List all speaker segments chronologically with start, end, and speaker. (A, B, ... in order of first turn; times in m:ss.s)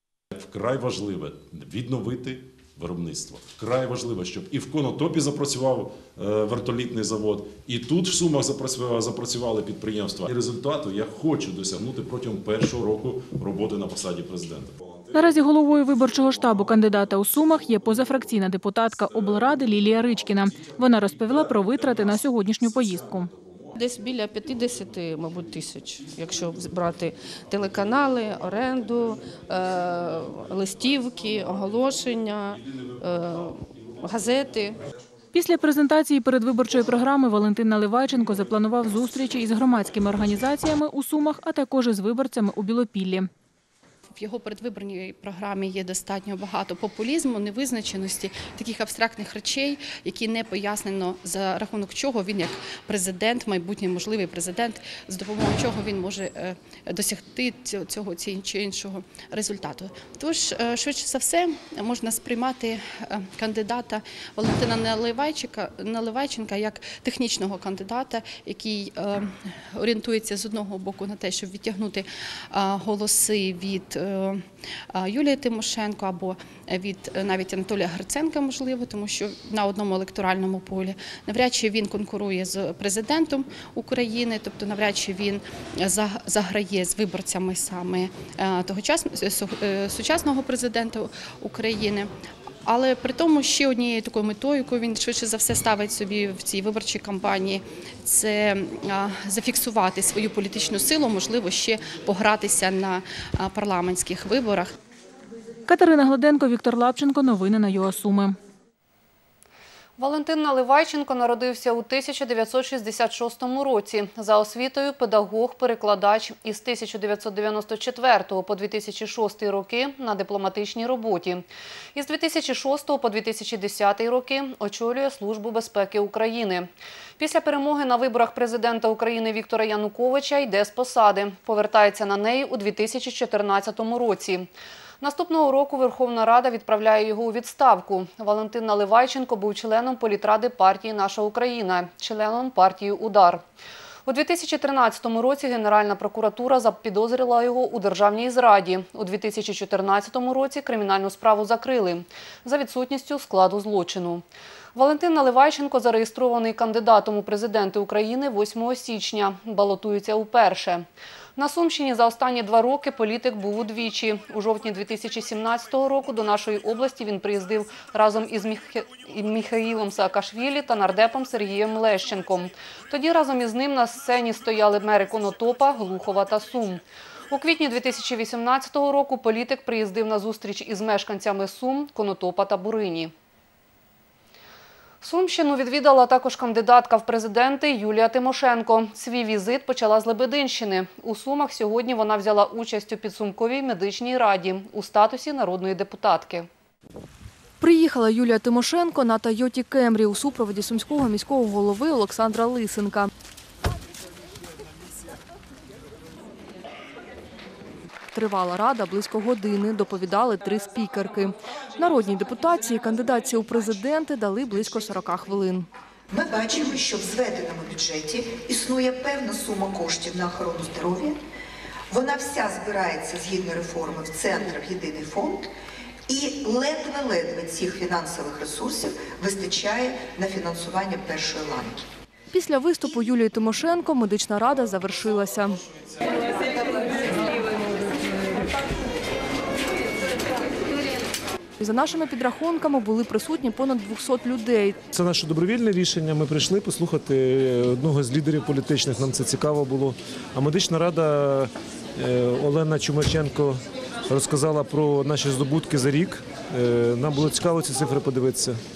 0:00.3-0:15.1 A
0:15.1-0:23.3 B
0:20.5-0:23.7 A
0:23.8-0:34.8 C
0:35.3-0:43.3 B
0:44.3-1:09.2 D
1:09.8-1:14.4 D
1:15.0-1:32.1 D
1:32.7-1:44.7 D
1:45.7-1:48.4 B
1:50.0-2:14.5 E
2:15.0-2:23.4 E
2:24.0-3:03.1 E
3:05.0-3:16.5 E
3:17.6-3:23.1 F
3:28.1-3:35.6 F
3:36.1-3:41.2 G
3:41.9-3:45.5 G
3:46.1-3:51.8 G
3:52.3-3:55.5 F
4:01.6-4:04.8 F
4:04.9-4:13.6 H
4:14.1-4:18.6 H